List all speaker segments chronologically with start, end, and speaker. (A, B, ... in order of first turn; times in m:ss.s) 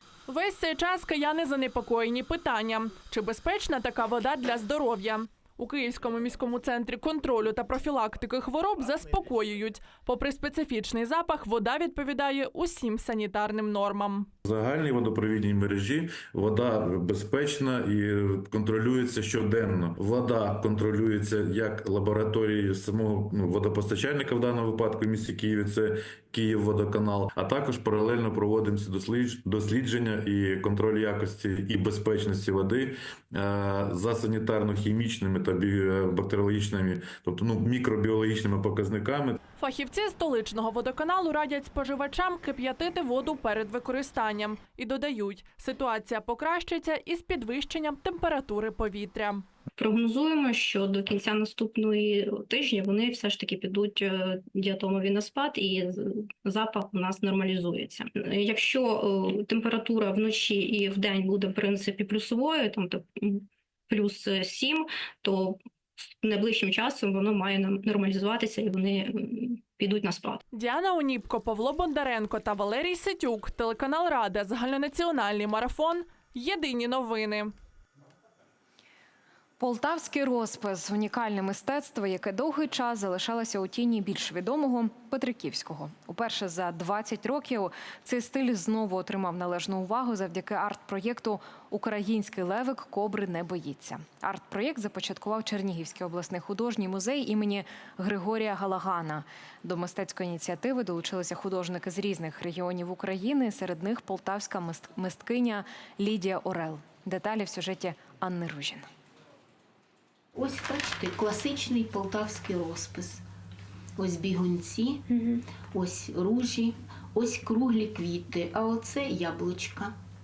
0:00.3-0:14.3 A
0:14.4-0:39.4 B
0:39.6-0:49.4 A
0:49.8-1:05.6 C
1:06.2-1:10.4 C
1:10.5-1:17.5 A
1:19.6-1:48.8 D
1:50.3-1:53.2 E
1:54.0-1:59.9 E